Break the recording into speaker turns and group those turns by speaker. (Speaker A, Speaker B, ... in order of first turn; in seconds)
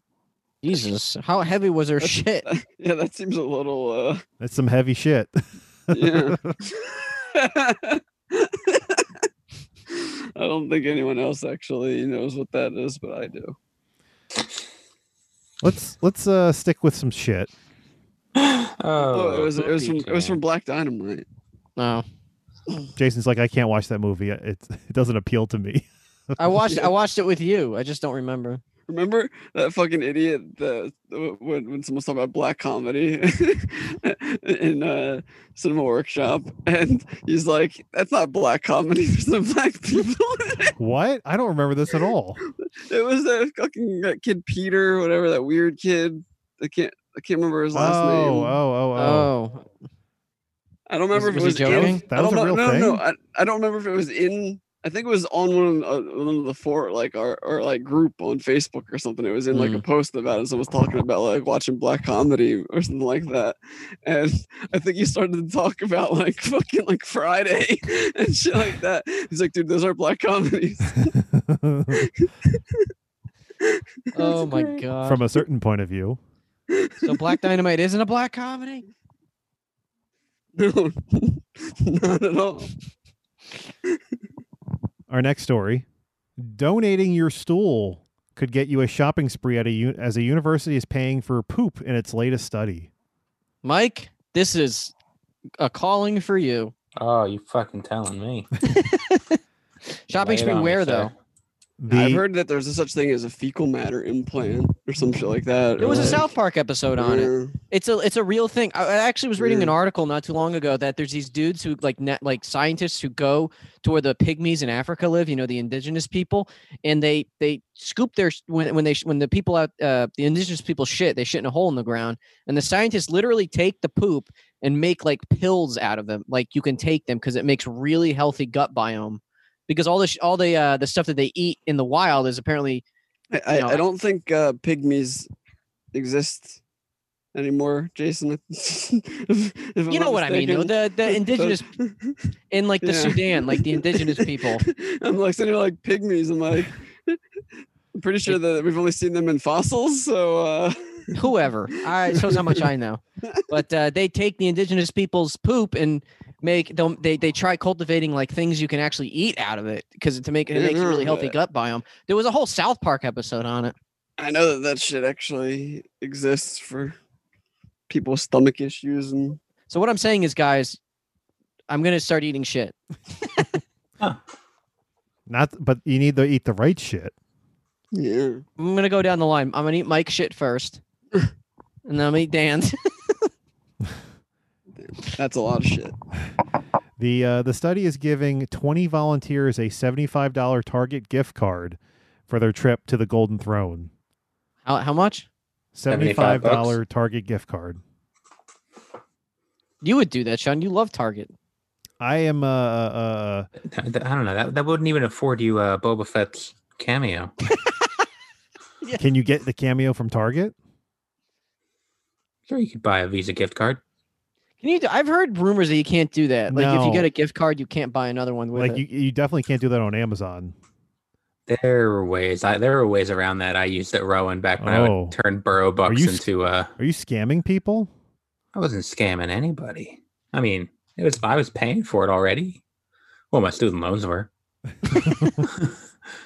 Speaker A: 0.6-2.5, 21.8-22.1, 26.4-28.6, 49.0-49.7, 51.1-52.0, 59.5-59.8, 74.1-75.2, 77.0-78.8, 93.6-94.9, 95.6-96.7, 98.7-99.4, 100.1-101.1, 105.8-132.8, 133.5-133.8, 139.9-141.7, 142.5-144.6, 151.1-163.8, 169.7-170.8, 171.7-172.8, 178.6-180.8, 181.9-183.3, 194.7-195.3, 199.8-201.3, 214.6-218.8
Speaker B: 2.0-4.2, 5.9-9.1, 9.9-13.6, 19.0-21.2, 28.9-40.7, 42.9-48.6, 50.9-71.1, 72.2-72.8, 73.6-74.8, 76.7-77.3, 80.6-82.7, 101.9-106.3, 107.0-107.6, 109.4-109.8, 133.3-135.3, 135.9-136.6, 137.3-142.2, 142.8-147.2, 147.9-152.7, 160.5-161.4, 164.2-167.0, 167.9-169.4, 177.9-178.4, 184.8-185.9
Speaker C: 4.4-5.3, 5.9-6.6, 15.6-17.5, 23.0-25.9, 40.8-42.4, 47.7-49.3, 51.6-53.0, 71.3-72.1, 75.0-76.2, 85.1-85.8, 86.4-92.9, 101.8-102.2, 175.3-177.1, 187.0-193.9, 195.8-197.8, 202.0-203.5, 209.0-210.6, 216.5-217.1, 218.6-220.6, 224.6-225.2, 225.9-227.9
Speaker D: 18.4-20.4, 97.0-98.5, 100.1-101.1, 195.9-196.8, 203.6-207.3, 212.5-213.8, 221.5-226.7, 228.5-232.6, 233.3-234.3, 235.5-235.7